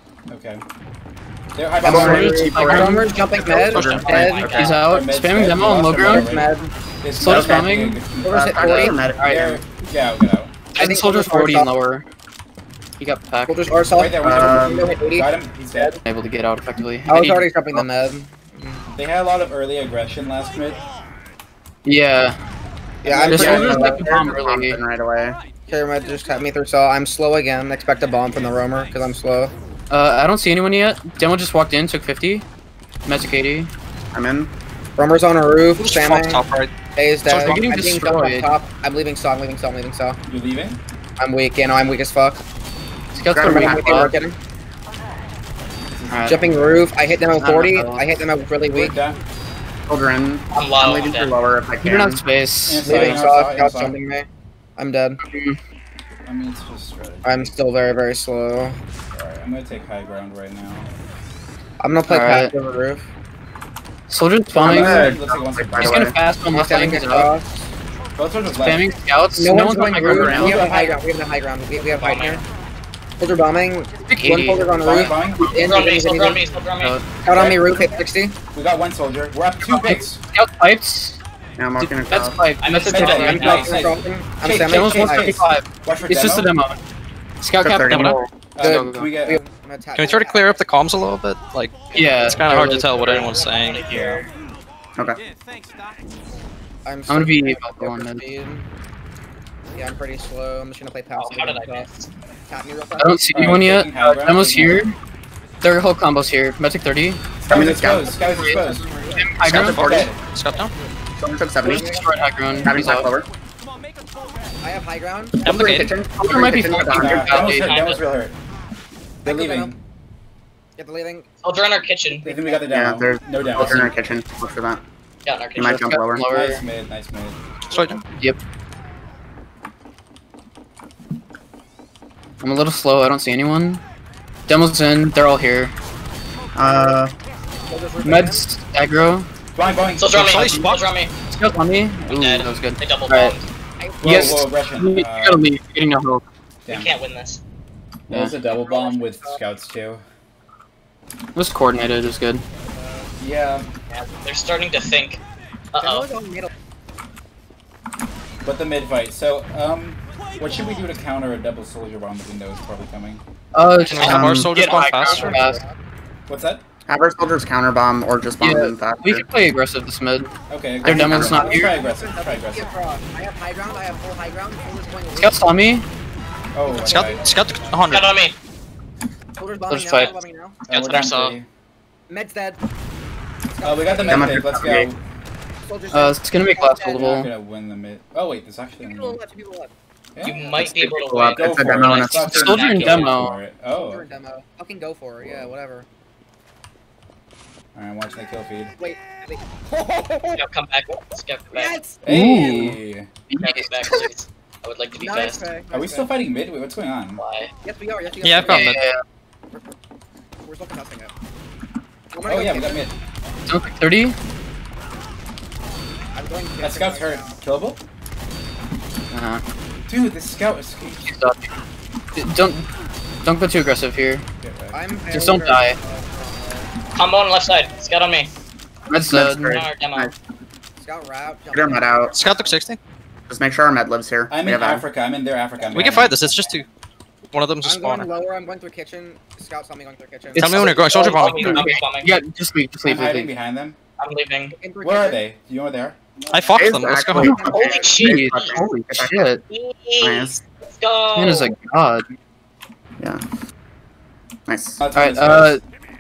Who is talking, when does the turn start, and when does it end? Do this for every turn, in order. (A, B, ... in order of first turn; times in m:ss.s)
0:00.3-0:00.6 A
0:01.6-0:02.5 A
0:01.8-0:04.7 B
0:01.8-0:04.1 C
0:01.9-0:03.1 D
0:03.7-0:04.6 E
0:04.1-0:10.7 A
0:04.1-0:04.8 F
0:04.6-0:06.3 D
0:06.0-0:06.7 B
0:07.2-0:08.0 D
0:07.3-0:07.6 C
0:08.2-0:09.0 B
0:08.3-0:09.3 C
0:08.7-0:09.6 D
0:10.7-0:12.0 D
0:10.8-0:11.7 B
0:13.0-0:13.6 D
0:13.5-0:16.0 B
0:13.9-0:16.0 A
0:14.2-0:14.8 C
0:16.0-0:17.8 D
0:17.1-0:18.8 B
0:19.0-0:20.9 A
0:21.8-0:22.4 D
0:23.0-0:24.3 B
0:23.0-0:25.4 C
0:23.3-0:24.8 D
0:23.4-0:23.8 A
0:25.7-0:29.5 B
0:29.9-0:32.4 D
0:33.1-0:33.7 D
0:34.1-0:34.5 C
0:35.0-0:36.4 B
0:35.8-0:36.7 E
0:36.9-0:40.2 B
0:37.3-0:38.5 D
0:40.3-0:40.8 A
0:41.2-0:42.4 B
0:43.1-0:44.1 D
0:43.3-0:44.2 C
0:43.4-0:44.4 B
0:45.9-0:47.0 A
0:46.1-0:46.5 D
0:46.3-0:49.0 B
0:47.4-0:48.2 D
0:48.7-0:49.2 A
0:49.9-0:52.2 C
0:50.5-0:51.3 F
0:51.8-0:53.2 D
0:52.7-0:54.0 A
0:52.8-0:54.3 B
0:54.8-0:55.2 B
0:55.2-0:55.6 D
0:56.3-0:57.6 A
0:57.2-0:58.8 B
0:59.1-1:00.9 A
1:01.8-1:03.1 B
1:02.1-1:02.5 D
1:04.1-1:05.1 D
1:04.5-1:06.2 A
1:04.6-1:06.2 C
1:05.8-1:07.3 D
1:06.5-1:07.7 B
1:08.2-1:08.9 A
1:08.6-1:10.7 D
1:09.4-1:12.4 B
1:10.0-1:10.7 C
1:11.8-1:12.4 F
1:13.2-1:16.4 B
1:14.1-1:14.7 D
1:14.8-1:15.7 A
1:15.6-1:17.0 F
1:16.8-1:17.0 D
1:17.2-1:18.4 B
1:17.3-1:17.6 A
1:18.5-1:20.2 A
1:19.6-1:21.2 D
1:21.6-1:22.4 C
1:21.8-1:23.9 D
1:22.6-1:23.8 F
1:22.9-1:26.5 A
1:22.9-1:25.3 B
1:24.6-1:26.8 D
1:27.4-1:29.1 D
1:27.6-1:28.2 C
1:27.9-1:28.2 E
1:28.6-1:29.4 A
1:28.6-1:30.6 B
1:30.0-1:33.9 E
1:31.9-1:33.2 D
1:33.0-1:34.3 F
1:33.8-1:34.2 A
1:36.8-1:38.7 B
1:37.1-1:38.2 D
1:39.7-1:41.9 B
1:41.2-1:42.1 F
1:42.5-1:43.2 B
1:43.0-1:45.0 D
1:43.3-1:44.9 A
1:45.6-1:47.2 D
1:47.4-1:48.8 A
1:47.5-1:48.1 C
1:48.0-1:49.7 B
1:49.2-1:49.8 D
1:49.5-1:50.1 C
1:49.6-1:50.7 E
1:49.8-1:50.2 A
1:50.5-1:50.9 B
1:51.2-1:51.9 C
1:51.6-1:52.8 B
1:51.8-1:53.1 D
1:52.6-1:53.3 C
1:54.6-1:55.4 B
1:55.4-1:57.3 C
1:55.4-1:55.9 E
1:56.2-1:57.7 D
1:56.9-1:58.4 A
1:57.5-1:58.1 F
1:59.2-1:59.8 B
1:59.2-1:59.8 A
2:00.8-2:01.3 B
2:01.4-2:02.3 F
2:02.2-2:03.9 A
2:02.7-2:04.8 C
2:05.2-2:05.8 F
2:05.6-2:06.2 C
2:05.6-2:06.6 D
2:06.2-2:08.0 A
2:07.7-2:08.0 E
2:12.4-2:13.8 D
2:14.5-2:15.7 D
2:16.6-2:17.1 C
2:17.7-2:18.5 B
2:18.0-2:19.3 D
2:19.6-2:20.3 A
2:19.7-2:20.0 B
2:20.0-2:21.1 F
2:20.3-2:20.9 E
2:21.3-2:23.4 D
2:22.1-2:23.5 F
2:23.8-2:24.4 B
2:24.0-2:25.4 A
2:24.0-2:26.2 D
2:26.7-2:26.9 A
2:26.7-2:27.4 F
2:28.1-2:30.0 A
2:28.4-2:29.4 B
2:31.4-2:32.4 D
2:32.6-2:33.1 B
2:33.2-2:33.7 A
2:33.9-2:35.2 F
2:35.7-2:36.1 F
2:35.8-2:36.5 B
2:38.4-2:43.2 A
2:43.5-2:45.6 D
2:43.9-2:45.4 E
2:44.0-2:44.5 C
2:44.6-2:45.3 F
2:44.9-2:45.8 B
2:46.3-2:46.6 A
2:46.9-2:49.2 C
2:48.4-2:50.3 D
2:50.5-2:52.7 A
2:50.8-2:51.5 C
2:50.8-2:51.7 D
2:51.1-2:55.4 B
2:55.2-2:55.9 D
2:56.5-2:57.4 A
2:56.7-2:57.7 B
2:56.9-2:58.1 E
2:57.9-2:58.4 F
2:59.4-3:00.6 B
2:59.7-3:00.1 D
3:00.0-3:01.4 F
3:00.7-3:01.5 A
3:02.1-3:02.6 B
3:03.5-3:04.4 B
3:03.6-3:05.0 A
3:04.1-3:04.9 C
3:05.6-3:07.1 B
3:05.9-3:07.3 D
3:06.9-3:09.2 A
3:08.8-3:09.7 B
3:10.2-3:10.5 A
3:10.2-3:13.2 F
3:10.3-3:10.7 B
3:10.6-3:12.5 C
3:11.4-3:14.0 A
3:12.2-3:13.4 D
3:13.7-3:15.9 B
3:15.2-3:15.5 A
3:17.8-3:18.8 A
3:18.8-3:20.4 B
3:20.4-3:21.8 F
3:21.5-3:22.0 B
3:22.0-3:23.1 A
3:22.1-3:24.1 D
3:23.4-3:25.4 F
3:25.0-3:26.1 B
3:25.7-3:27.2 A
3:27.2-3:27.5 F
3:27.6-3:28.8 B
3:28.2-3:28.8 E
3:28.4-3:29.0 D
3:30.4-3:31.1 B
3:32.1-3:32.9 B
3:32.2-3:32.9 A
3:33.5-3:34.2 D
3:36.1-3:37.4 B
3:36.6-3:37.8 A
3:39.1-3:39.4 D
3:39.9-3:41.2 A
3:41.0-3:41.6 D
3:42.2-3:42.7 D
3:43.2-3:44.2 D
3:44.4-3:44.8 A
3:44.7-3:46.7 B
3:45.1-3:45.8 D
3:46.9-3:48.3 F
3:48.9-3:49.6 D
3:49.1-3:50.2 C
3:49.5-3:50.1 F
3:50.8-3:52.5 B
3:51.5-3:52.1 C
3:52.1-3:52.8 E
3:53.3-3:54.8 C
3:54.3-3:56.2 A
3:55.6-3:56.1 B
3:55.7-3:56.7 E
3:57.3-3:58.1 E
3:57.6-4:01.2 B
4:00.4-4:01.6 E
4:00.4-4:03.3 D
4:00.6-4:02.1 F
4:02.8-4:03.8 A
4:04.0-4:04.6 F
4:04.6-4:05.2 B
4:04.8-4:06.6 A
4:06.3-4:07.3 E
4:06.6-4:09.2 C
4:07.1-4:07.9 B
4:07.2-4:09.4 D
4:07.4-4:08.5 F
4:09.5-4:11.5 F
4:10.0-4:10.4 C
4:11.2-4:12.0 D
4:14.5-4:14.8 C
4:14.8-4:15.6 A
4:14.9-4:15.6 D